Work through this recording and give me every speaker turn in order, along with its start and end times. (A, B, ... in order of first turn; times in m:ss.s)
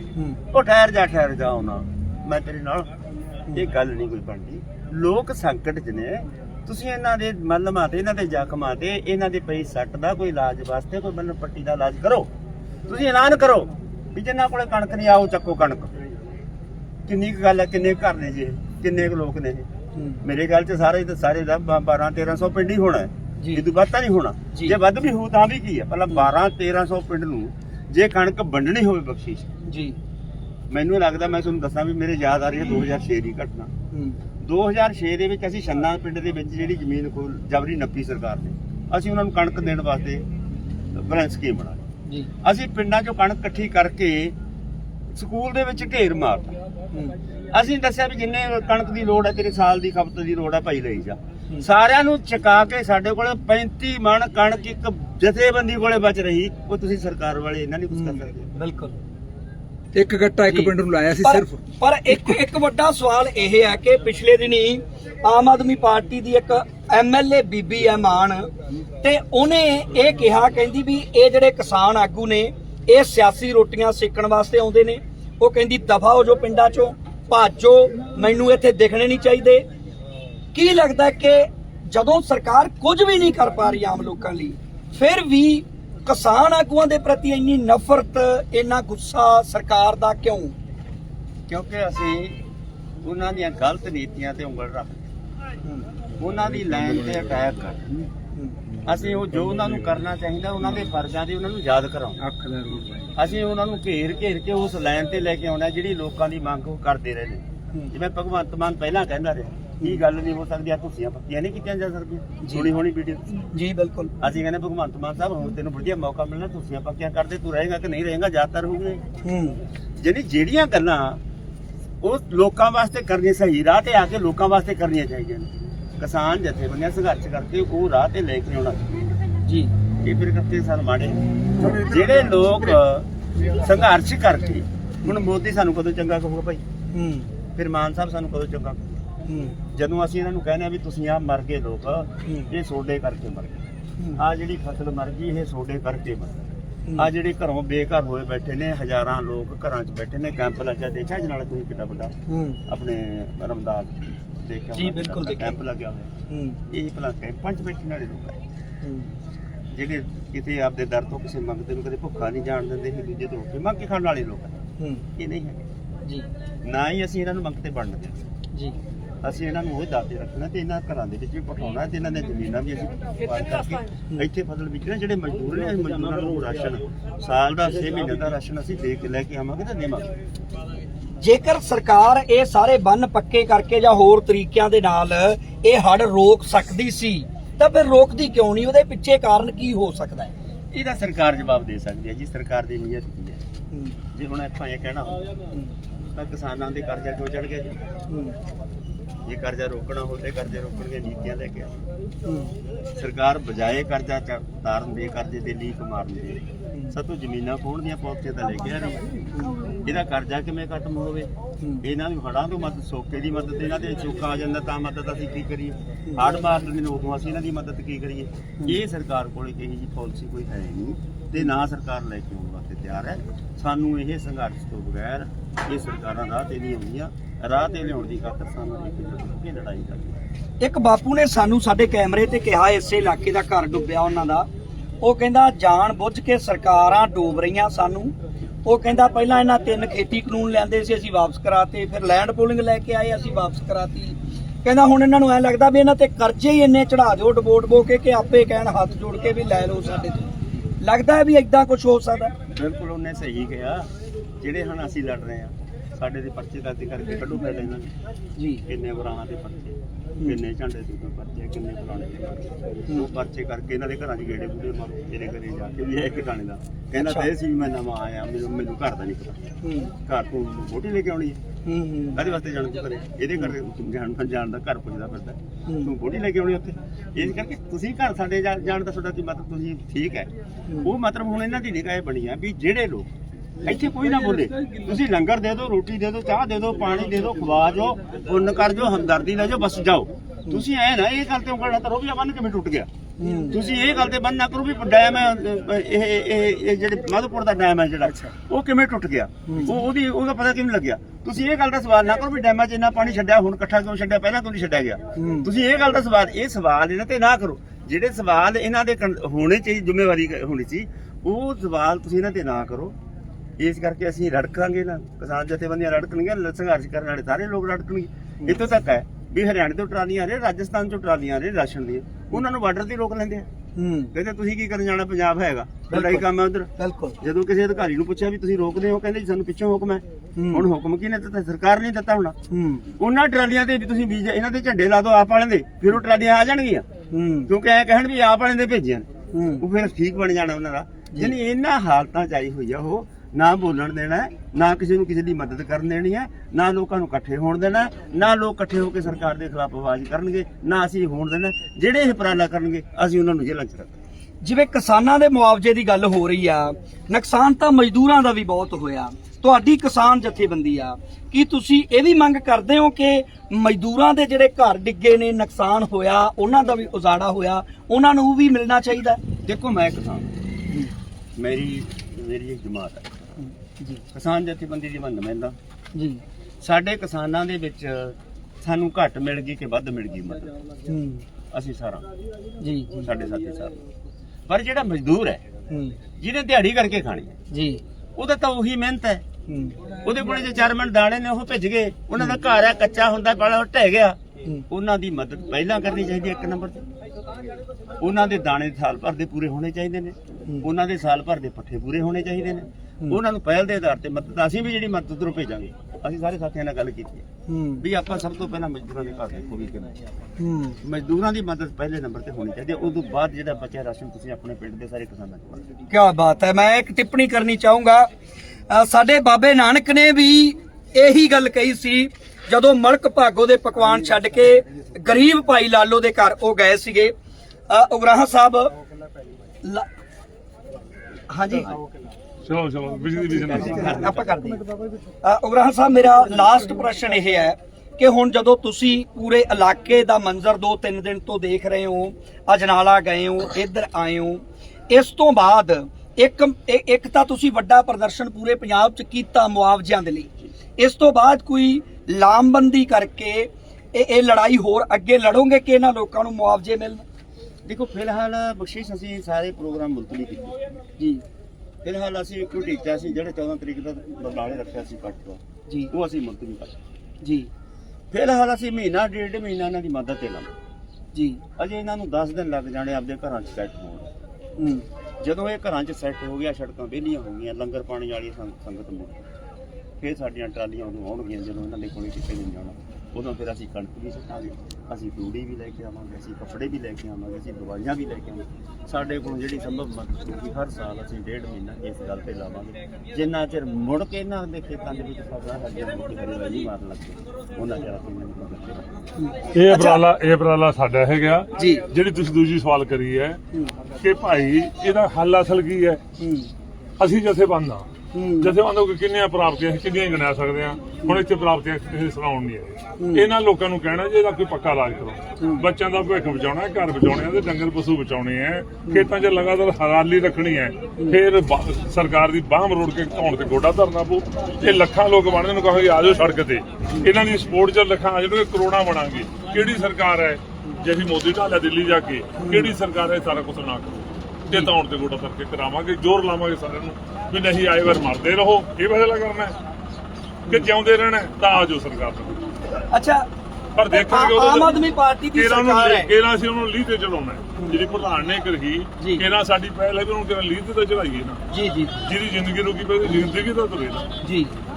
0:00.2-0:00.4 A
0:00.5-0:02.9 B
0:03.5-0:12.3 B
0:12.9-0:16.1 B
0:17.1-0:19.7 B
0:20.0-0:20.2 A
0:20.2-0:29.5 B
0:23.4-0:23.6 A
0:29.7-0:30.0 A
0:30.7-0:33.7 B
0:33.9-0:34.2 A
0:34.4-0:40.3 B
0:40.9-0:41.9 B
0:42.4-0:44.4 B
0:45.1-0:46.6 B
0:47.5-0:58.5 B
0:57.9-0:59.0 A
0:59.9-1:01.6 C
1:00.4-1:08.5 A
1:09.0-1:19.6 A
1:20.5-1:30.6 A
1:31.5-1:32.4 B
1:33.0-1:35.0 B
1:36.2-1:38.1 B
1:36.6-1:37.1 C
1:38.4-1:38.6 A
1:38.8-1:42.2 B
1:39.4-1:39.9 C
1:42.2-1:43.1 C
1:43.2-1:53.5 B
1:53.5-1:54.1 A
1:54.2-1:59.0 B
1:59.2-1:59.6 A
2:00.0-2:01.2 B
2:02.0-2:09.0 B
2:09.4-2:09.7 A
2:10.0-2:16.6 B
2:11.6-2:11.9 A
2:16.9-2:17.3 A
2:17.6-2:19.0 B
2:19.3-2:19.6 A
2:19.7-2:32.2 B
2:22.3-2:22.5 A
2:32.3-2:32.6 A
2:32.7-2:36.1 B
2:34.8-2:35.6 A
2:36.3-2:36.6 A
2:36.7-2:38.4 B
2:38.8-2:39.1 A
2:39.7-2:44.6 B
2:44.8-2:45.0 A
2:45.2-2:45.7 B
2:46.0-2:46.3 A
2:46.6-2:48.3 B
2:49.2-3:00.2 B
3:01.2-3:10.3 A
3:10.7-3:13.4 B
3:14.1-3:15.3 B
3:16.1-3:17.8 B
3:18.1-3:18.4 A
3:19.2-3:21.9 B
3:22.3-3:22.5 A
3:23.0-3:29.3 B
3:29.8-3:31.3 B
3:31.8-3:50.2 B
3:50.6-3:54.5 A
3:55.0-4:12.3 A
4:12.5-4:17.9 B
4:18.4-4:18.6 A
4:18.6-4:29.5 B
4:27.0-4:27.3 A
4:29.6-4:29.9 A
4:30.0-4:31.4 B
4:31.6-4:32.2 A
4:32.1-4:43.1 B
4:35.7-4:35.9 A
4:43.6-4:52.9 B
4:53.2-4:53.6 A
4:53.5-5:13.0 B
4:59.5-4:59.8 A
5:05.2-5:05.5 A
5:13.6-5:23.5 B
5:23.8-5:24.1 A
5:24.1-5:32.4 B
5:25.9-5:27.2 A
5:30.4-5:30.6 A
5:32.5-5:32.9 A
5:33.0-5:36.9 B
5:37.1-5:37.5 A
5:37.5-5:54.0 B
5:39.3-5:39.6 A
5:54.4-6:09.2 A
6:09.4-6:10.3 B
6:11.4-6:13.4 B
6:13.4-6:14.0 A
6:14.1-6:15.6 B
6:15.9-6:16.2 A
6:16.6-6:20.6 B
6:20.9-6:21.3 A
6:21.5-6:22.1 B
6:22.6-6:23.1 A
6:23.0-6:23.8 B
6:24.5-6:25.4 B
6:25.7-6:26.0 A
6:26.2-6:27.4 B
6:27.5-6:27.8 A
6:28.2-6:29.2 B
6:29.5-6:29.8 A
6:30.0-6:34.2 B
6:34.7-6:36.8 B
6:38.0-6:47.3 B
6:47.5-6:47.8 A
6:47.8-6:50.0 B
6:50.4-6:50.8 A
6:50.8-6:55.8 B
6:55.9-6:58.1 A
6:58.7-7:07.1 A
7:07.7-7:08.7 A
7:11.3-7:11.7 A
7:12.4-7:14.0 D
7:13.3-7:14.4 B
7:13.7-7:14.7 A
7:15.2-7:37.0 A
7:37.6-7:40.6 B
7:41.0-7:41.2 A
7:41.8-7:46.8 B
7:47.2-7:47.5 A
7:48.1-7:50.5 B
7:51.1-7:51.4 A
7:51.6-7:54.1 B
7:54.6-7:54.9 A
7:55.2-7:59.2 B
8:00.0-8:18.9 B
8:19.2-8:20.0 A
8:19.5-8:23.4 D
8:21.6-8:21.8 A
8:24.0-8:26.0 D
8:26.2-8:26.5 A
8:27.0-8:27.9 D
8:28.1-8:28.5 A
8:28.4-8:59.6 D
8:33.0-8:33.3 A
8:35.4-8:35.6 A
8:52.4-8:52.7 A
9:00.5-9:02.5 D
9:02.9-9:03.3 A
9:03.8-9:11.4 D
9:03.9-9:06.1 A
9:11.5-9:12.0 A
9:12.0-9:14.1 D
9:14.2-9:14.5 A